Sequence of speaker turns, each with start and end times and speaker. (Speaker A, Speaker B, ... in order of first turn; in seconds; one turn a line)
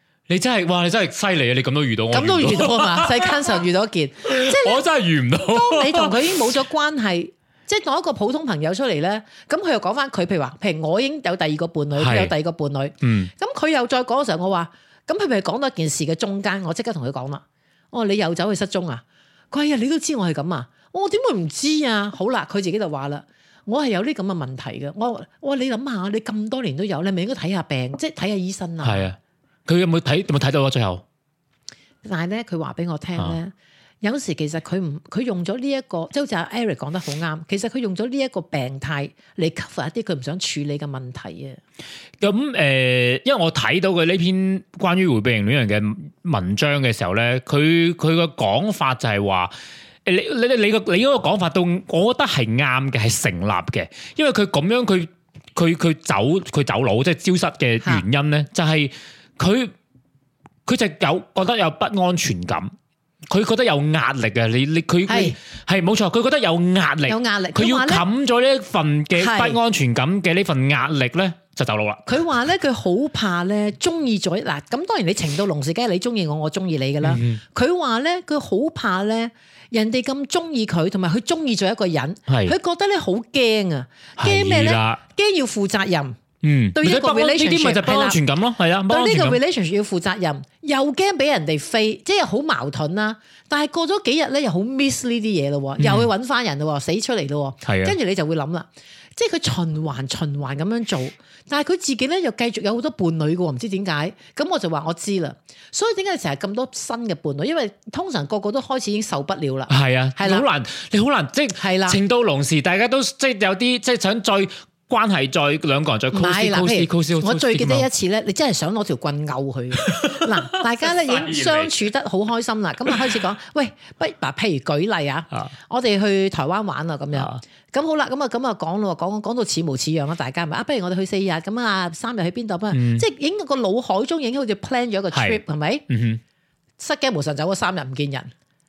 Speaker A: 0.3-3.6
Speaker B: 2.1-4.8
Speaker A: 4.2-6.3
Speaker B: 5.5-29.1
Speaker A: 12.0-12.3
Speaker A: 13.0-13.3
Speaker A: 28.8-31.0
Speaker B: 32.0-41.6
Speaker A: 42.2-49.5
Speaker A: 50.0-59.7
Speaker A: 60.6-62.7
Speaker A: 63.3-72.1
Speaker B: 65.0-65.3
Speaker B: 67.1-68.0
Speaker B: 69.2-69.6
Speaker B: 72.0-86.2
Speaker A: 77.0-77.4
Speaker A: 82.3-82.5
Speaker A: 84.2-85.0
Speaker A: 86.4-89.4
Speaker B: 86.7-88.2
Speaker B: 88.9-110.5
Speaker A: 95.8-96.1
Speaker A: 97.6-98.0
Speaker A: 109.7-117.9
Speaker B: 111.6-112.0
Speaker B: 116.1-135.8
Speaker A: 119.8-121.9
Speaker A: 127.1-127.4
Speaker A: 132.7-133.0
Speaker A: 135.1-136.2
Speaker B: 136.8-138.3